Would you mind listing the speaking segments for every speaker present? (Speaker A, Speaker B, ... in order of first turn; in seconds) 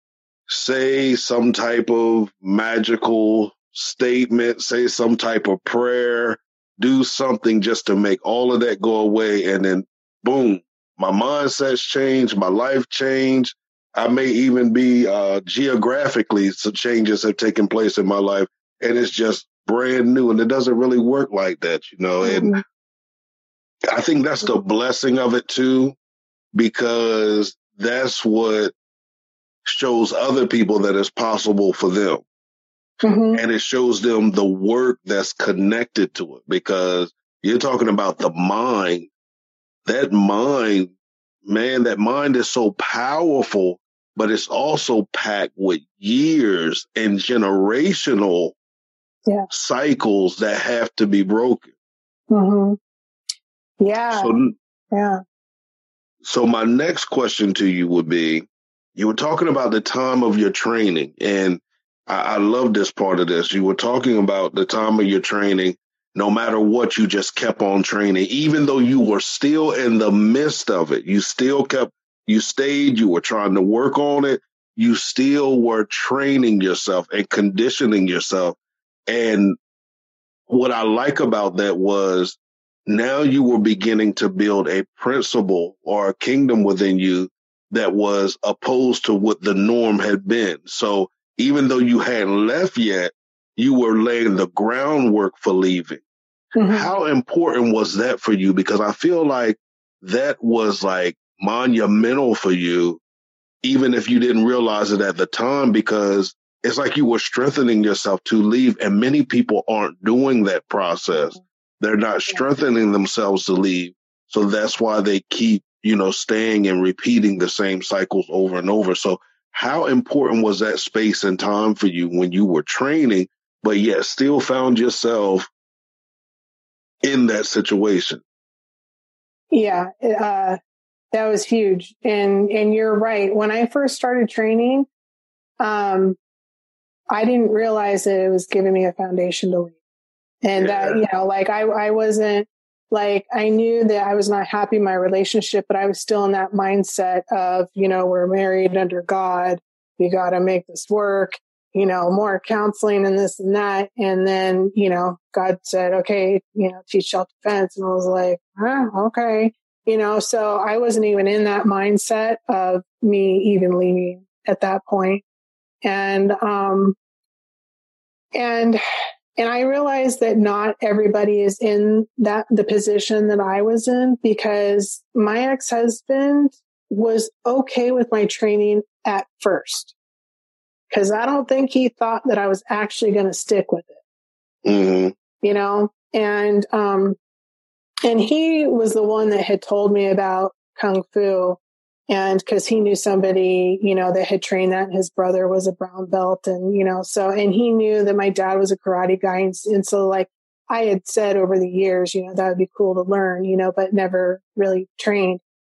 Speaker A: 0.5-22.6, 23.9-26.0, 26.6-28.7, 29.6-32.2, 33.3-39.1, 39.9-40.9, 41.5-48.5, 49.5-51.7, 54.1-54.5, 56.2-78.6, 79.1-79.6, 80.5-96.0, 96.7-103.0, 103.6-125.5, 127.0-128.2, 140.6-141.0, 184.7-185.2
Speaker B: 22.2-22.6, 33.0-33.4, 52.3-52.8, 53.8-54.4, 54.9-55.2, 96.5-96.9, 129.5-130.6, 131.1-134.9, 135.6-136.2, 137.1-139.8, 140.4-165.2, 165.8-167.0, 168.3-168.8, 169.4-179.9, 180.9-184.0, 185.4-187.2, 188.1-205.4